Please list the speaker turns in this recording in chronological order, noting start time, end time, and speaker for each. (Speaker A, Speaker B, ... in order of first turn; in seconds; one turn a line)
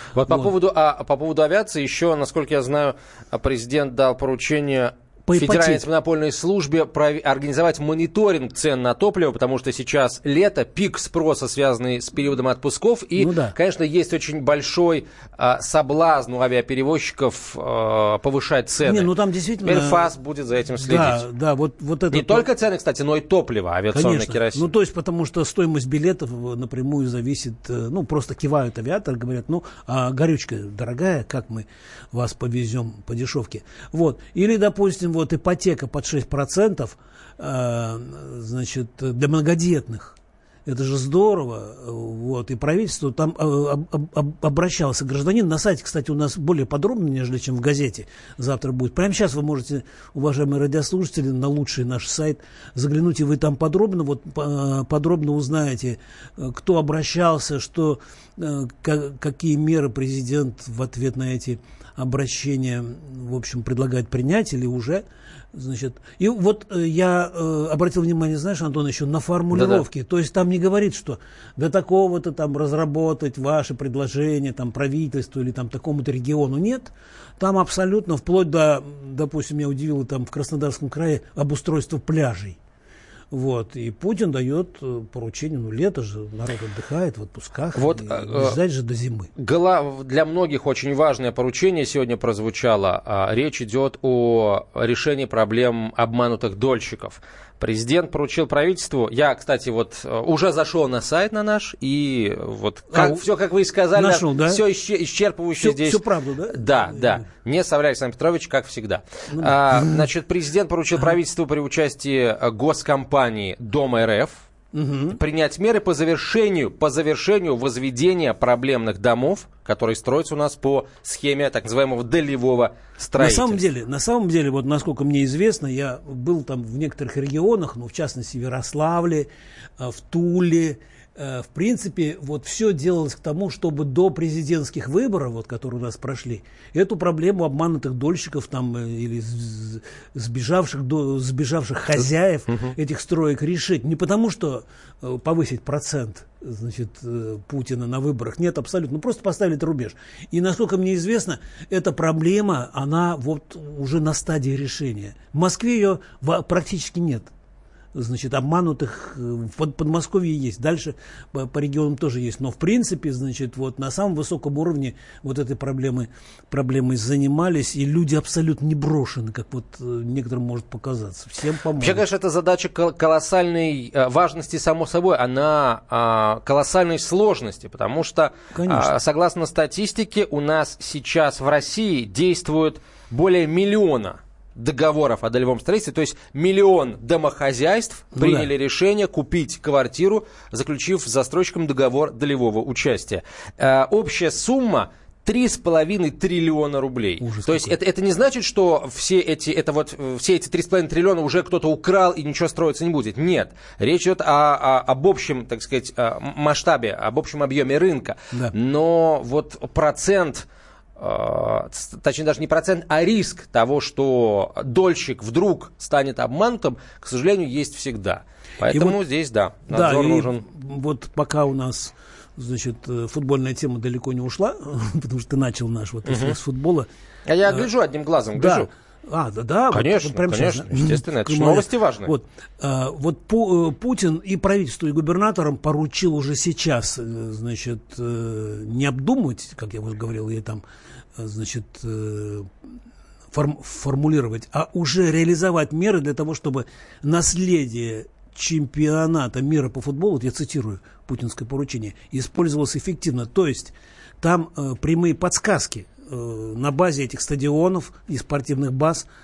Speaker A: 0.1-21.3
Speaker B: 0.2-0.5
Speaker B: 5.2-5.8
Speaker B: 13.2-13.6
Speaker B: 18.8-20.1
Speaker B: 20.7-22.5
Speaker A: 22.1-24.7
Speaker B: 23.9-82.6
Speaker A: 69.5-69.8
Speaker B: 83.3-89.3
Speaker A: 87.7-88.6
Speaker A: 89.3-114.4
Speaker B: 102.9-103.3
Speaker B: 103.9-104.7
Speaker B: 105.6-107.3
Speaker B: 109.3-110.1
Speaker B: 114.7-115.2
Speaker A: 115.1-123.6
Speaker B: 123.2-129.3
Speaker B: 129.8-157.3
Speaker A: 142.5-142.7
Speaker B: 157.9-172.1
Speaker A: 171.8-210.4
Speaker B: 178.5-178.9
Speaker B: 188.1-188.5
Speaker B: 197.2-197.8
Speaker A: 211.0-220.4
Speaker B: 218.7-219.0
Speaker B: 219.7-226.9
Speaker A: 226.1-226.4
Speaker A: 227.2-228.7
Speaker B: 227.4-227.7
Speaker B: 228.3-240.6
Speaker A: 229.7-232.1
Speaker B: 241.2-242.5
Speaker B: 243.3-259.1